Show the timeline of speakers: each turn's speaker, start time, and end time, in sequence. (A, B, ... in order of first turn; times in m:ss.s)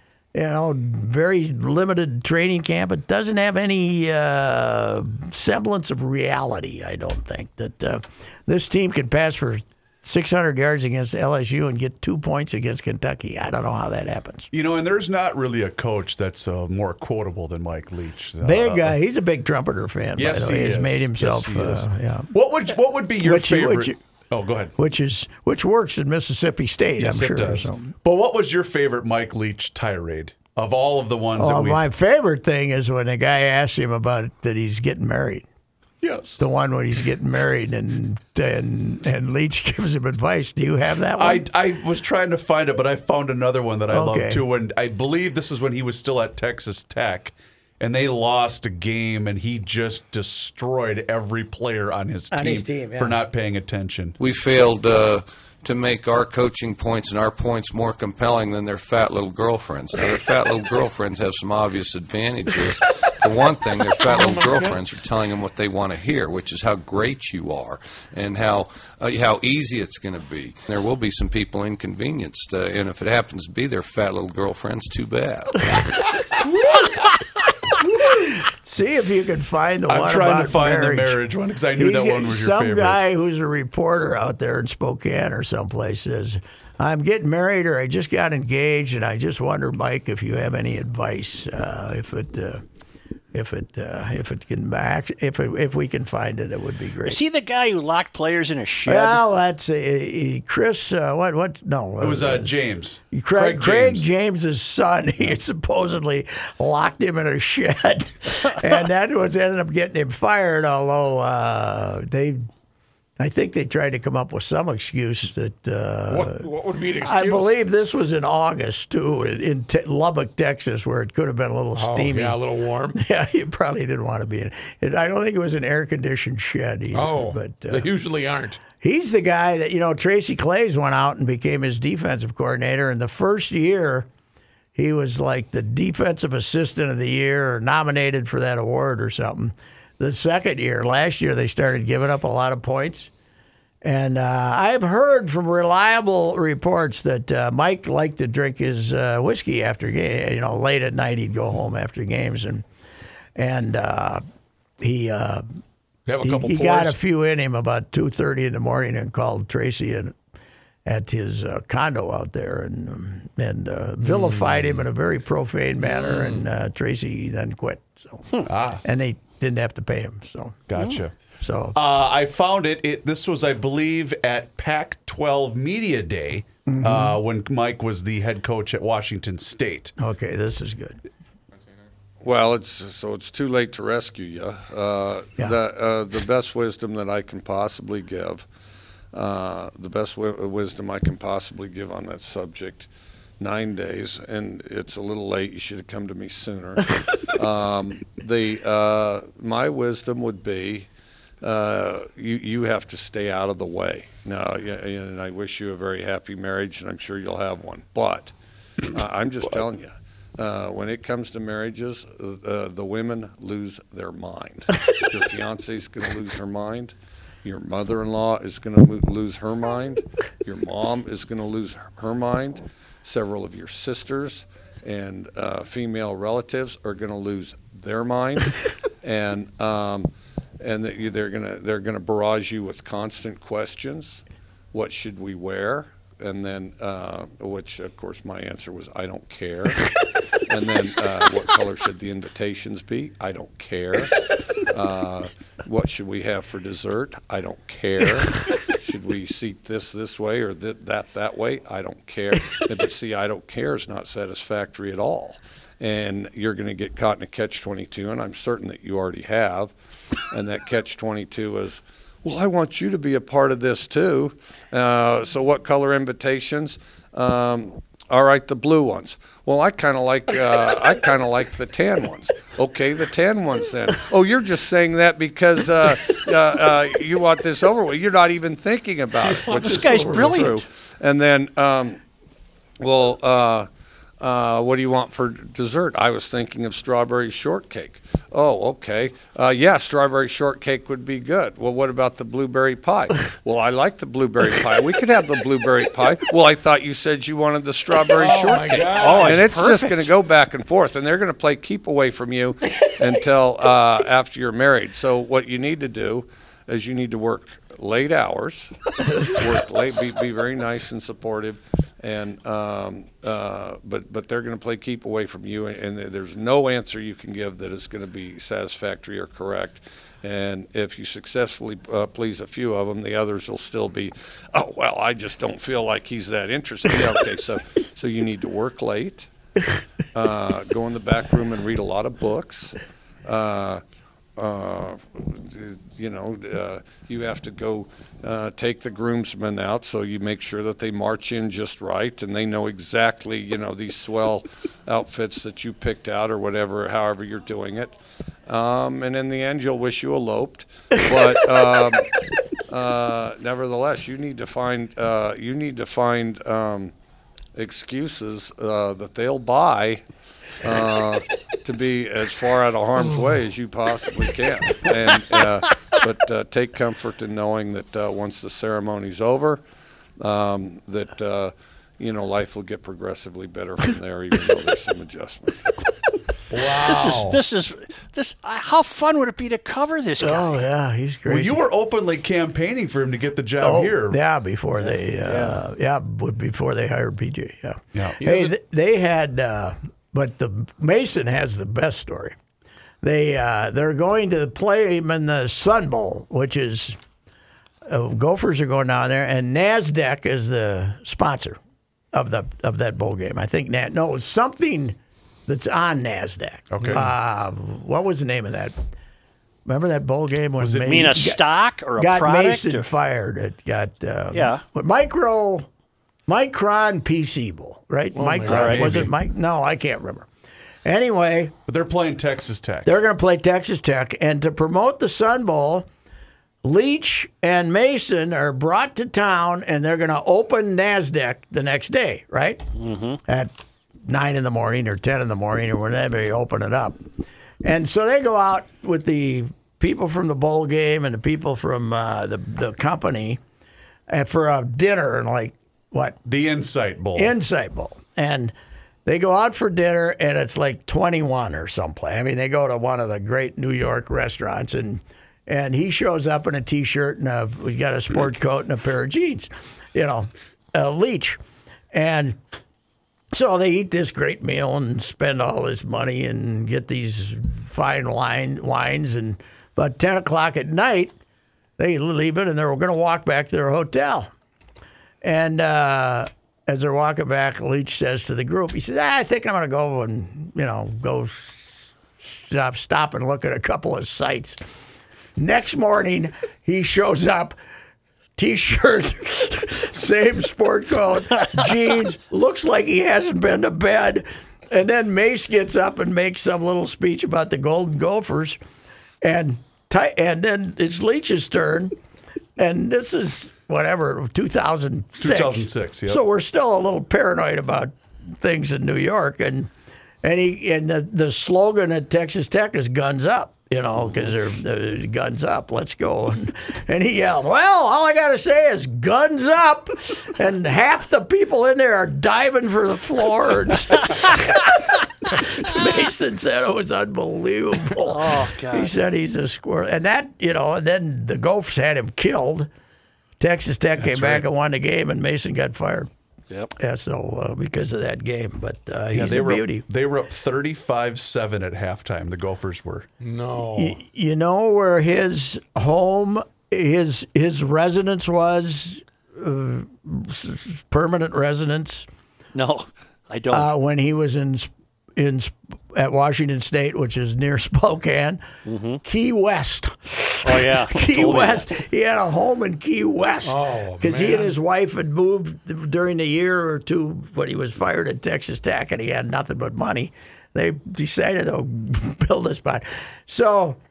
0:00.3-0:14.5 A
0:14.5-0:19.0 B
0:18.4-0:22.3 A
0:20.2-0:24.7 B
0:23.2-0:24.0 A
0:24.8-0:27.9 A
0:27.0-0:31.8 B
0:31.4-0:35.4 A
0:36.0-0:36.4 B
0:36.4-0:41.4 A
0:41.2-0:54.2 B
0:43.9-0:44.4 A
0:52.3-0:53.2 A
0:54.2-1:15.7 C
1:04.1-1:04.7 D
1:18.0-1:21.2 A
1:19.9-1:23.0 B
1:21.8-1:32.6 A
1:33.3-1:37.2 A
1:37.0-1:39.2 E
1:38.9-1:42.6 A
1:42.0-1:44.1 B
1:43.1-1:52.5 A
1:53.2-1:56.4 A
1:56.1-1:57.5 D
1:57.0-2:02.4 A
2:01.8-2:03.0 D
2:03.0-2:07.9 A
2:06.9-2:08.6 D
2:08.8-2:14.1 A
2:14.7-2:23.1 A
2:23.8-2:32.6 A
2:33.4-2:34.2 A
2:34.8-2:35.4 A
2:36.1-2:37.0 D
2:36.2-2:40.1 A
2:40.9-2:48.3 A
2:44.0-2:44.7 D
2:45.9-2:46.4 D
2:48.4-2:48.8 B
2:48.8-2:50.7 A
2:50.7-2:51.1 B
2:51.4-2:51.8 A
2:51.7-2:59.9 B
2:56.7-2:57.2 A
3:00.0-3:01.0 A
3:02.2-3:08.5 F
3:09.1-3:12.9 F
3:13.4-3:20.9 F
3:21.4-3:28.3 F
3:28.9-3:59.9 F
4:00.5-4:19.7 F
4:20.3-4:42.0 F
4:39.4-4:40.4 D
4:39.5-4:40.6 E
4:42.8-4:43.7 F
4:44.2-5:29.3 F
4:58.1-4:59.5 D
4:58.9-5:00.1 E
5:30.1-5:33.8 F
5:34.4-5:47.9 F
5:48.5-5:52.1 F
5:52.7-5:56.9 F
5:57.6-6:00.0 F
6:00.6-6:09.6 F
6:10.2-6:15.8 F
6:16.5-6:17.4 D
6:16.7-6:20.6 E
6:20.2-6:21.6 A
6:21.3-6:24.2 B
6:23.6-6:32.4 A
6:24.8-6:25.6 E
6:28.2-6:28.5 D
6:33.0-6:37.0 A
6:37.9-6:41.6 A
6:42.1-6:48.8 A
6:46.7-6:47.1 B
6:49.7-6:51.4 A
6:50.6-6:51.2 B
6:50.9-6:52.9 E
6:52.0-6:55.7 A
6:54.3-6:54.6 E
6:56.3-7:00.3 A
6:58.2-6:58.9 D
6:58.5-6:58.9 E
6:58.5-6:59.1 B
7:00.8-7:01.6 A
7:01.7-7:03.0 B
7:02.8-7:05.9 A
7:06.6-7:12.7 A
7:12.8-7:13.2 E
7:13.2-7:13.5 A
7:14.0-7:17.0 A
7:17.6-7:23.4 A
7:24.1-7:26.2 A
7:26.2-7:27.4 B
7:27.1-7:28.5 A
7:29.0-7:41.4 A
7:41.9-7:42.4 A
7:43.3-7:51.1 A
7:51.8-7:54.3 A
7:55.2-8:04.6 A
8:05.4-8:07.6 A
8:08.4-8:18.6 A
8:19.2-8:22.0 A
8:22.6-8:29.7 A
8:25.2-8:26.2 B
8:30.2-8:52.7 A
8:48.0-8:48.9 E
8:53.4-8:56.1 A
8:54.0-8:54.4 B
8:56.7-8:59.8 A
8:59.1-9:03.1 B
9:03.2-9:04.0 D
9:03.7-9:12.1 A
9:12.6-9:13.7 E
9:13.5-9:18.4 A
9:18.6-9:19.0 E
9:19.0-9:33.8 A
9:20.4-9:21.7 E
9:23.4-9:24.6 D